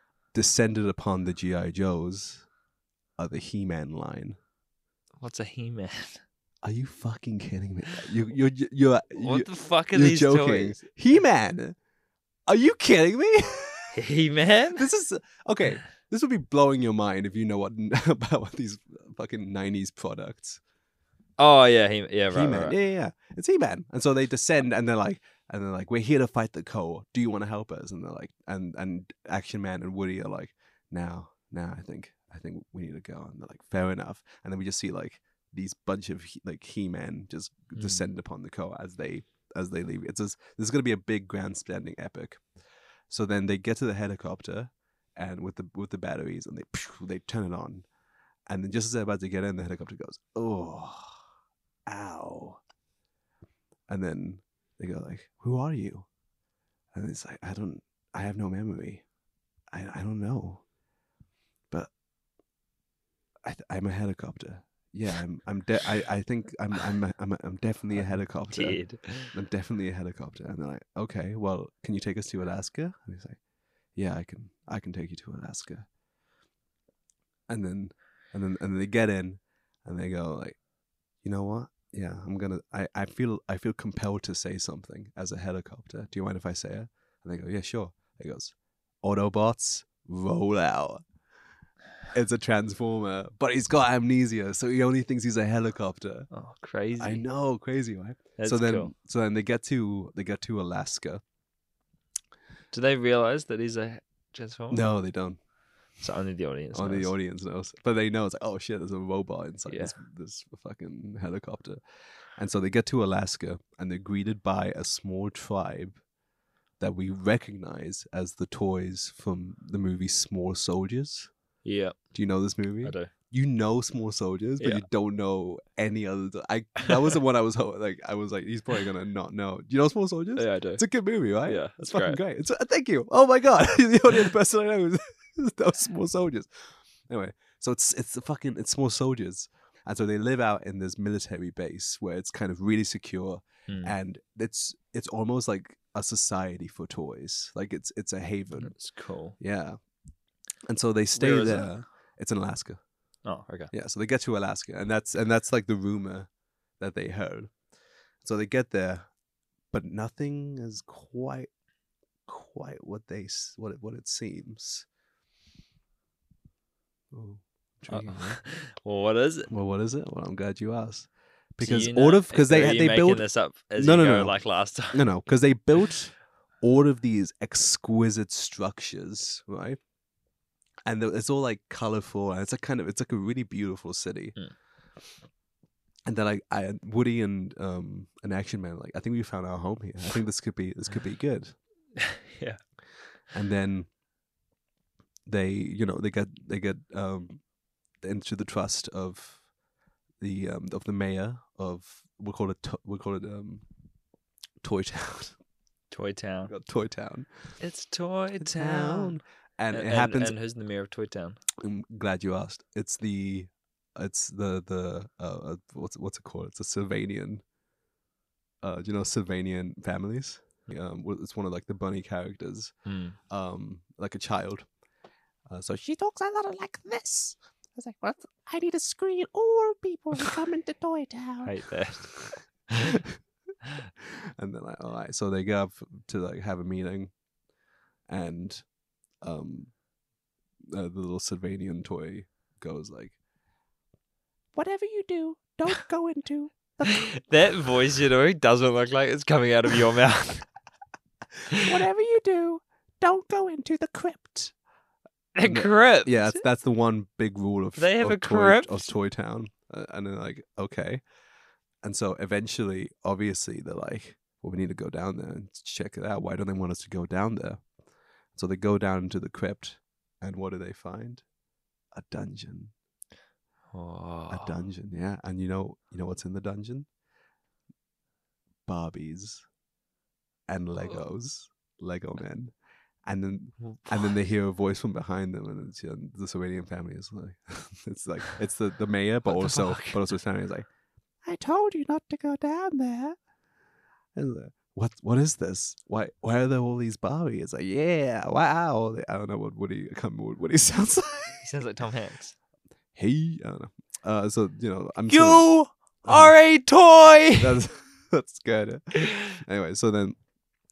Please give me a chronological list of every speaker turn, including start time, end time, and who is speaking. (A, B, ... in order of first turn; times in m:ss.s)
0:00.3-0:02.4 A
0:03.2-0:04.4 A
0:05.2-0:06.2 B
0:06.6-0:11.8 A
0:09.2-0:10.8 B
0:12.5-0:14.0 A
0:13.9-0:14.9 B
0:14.7-0:20.6 A
0:21.4-0:22.8 B
0:22.3-0:42.4 A
0:37.8-0:38.1 B
0:43.1-0:47.9 A
0:48.5-0:51.2 A
0:51.9-0:52.6 A
0:53.9-0:56.1 A
0:56.9-0:59.0 A
0:59.7-1:00.6 A
1:03.4-1:13.4 A
1:08.0-1:09.3 B
1:13.9-1:15.9 A
1:17.5-1:20.6 A
1:21.2-1:31.0 A
1:32.1-1:36.3 A
1:36.3-1:37.2 B
1:37.0-1:41.2 A
1:38.4-1:38.9 B
1:42.7-1:44.9 B
1:44.7-1:45.4 A
1:46.0-1:47.1 B
1:46.7-1:51.8 A
1:49.7-1:49.9 B
1:52.4-1:56.0 A
1:56.8-2:01.3 A
2:01.6-2:02.0 B
2:02.1-2:28.8 A
2:02.8-2:03.1 B
2:04.6-2:04.8 B
2:10.4-2:10.8 B
2:11.4-2:12.2 B
2:23.7-2:23.9 B
2:28.6-2:29.4 B
2:29.4-2:29.8 A
2:30.6-2:32.8 A
2:31.1-2:31.8 B
2:33.2-2:33.7 B
2:33.7-2:37.6 A
2:38.2-2:39.1 A
2:39.7-2:41.5 A
2:42.3-2:44.9 A
2:47.1-2:48.4 A
2:47.9-2:49.5 B
2:49.5-2:59.8 A
2:51.6-2:55.1 B
3:00.9-3:04.4 A
3:06.1-3:11.5 A
3:12.0-3:12.6 B
3:13.3-3:13.9 A
3:15.2-3:17.4 A
3:18.0-3:19.4 A
3:20.2-3:23.6 A
3:24.6-3:25.4 A
3:25.9-3:26.5 B
3:26.5-3:27.3 A
3:27.6-3:29.2 B
3:28.4-3:30.4 A
3:29.7-3:31.4 B
3:31.6-3:37.4 A
3:38.6-3:42.7 A
3:42.8-3:43.2 B
3:43.3-3:44.7 A
3:45.5-3:51.6 A
3:51.4-3:53.0 B
3:54.0-3:57.1 A
3:58.1-3:58.7 A
3:59.2-3:59.7 A
4:00.7-4:03.2 A
4:04.6-4:07.0 A
4:06.9-4:10.4 B
4:11.5-4:11.7 B
4:11.6-4:14.5 A
4:15.4-4:16.4 B
4:15.4-4:21.0 A
4:17.8-4:18.9 B
4:21.8-4:27.6 A
4:28.4-4:31.2 A
4:31.9-4:32.7 A
4:33.7-4:34.6 B
4:34.3-4:36.9 A
4:38.6-4:39.4 A
4:40.5-4:42.5 A
4:43.0-4:50.7 A
4:43.6-4:44.1 B
4:49.3-4:50.1 B
4:51.2-4:53.2 A
4:54.2-5:01.5 A
5:01.4-5:02.4 B
5:02.9-5:05.5 A
5:05.1-5:07.6 B
5:06.0-5:06.4 A
5:07.4-5:10.2 A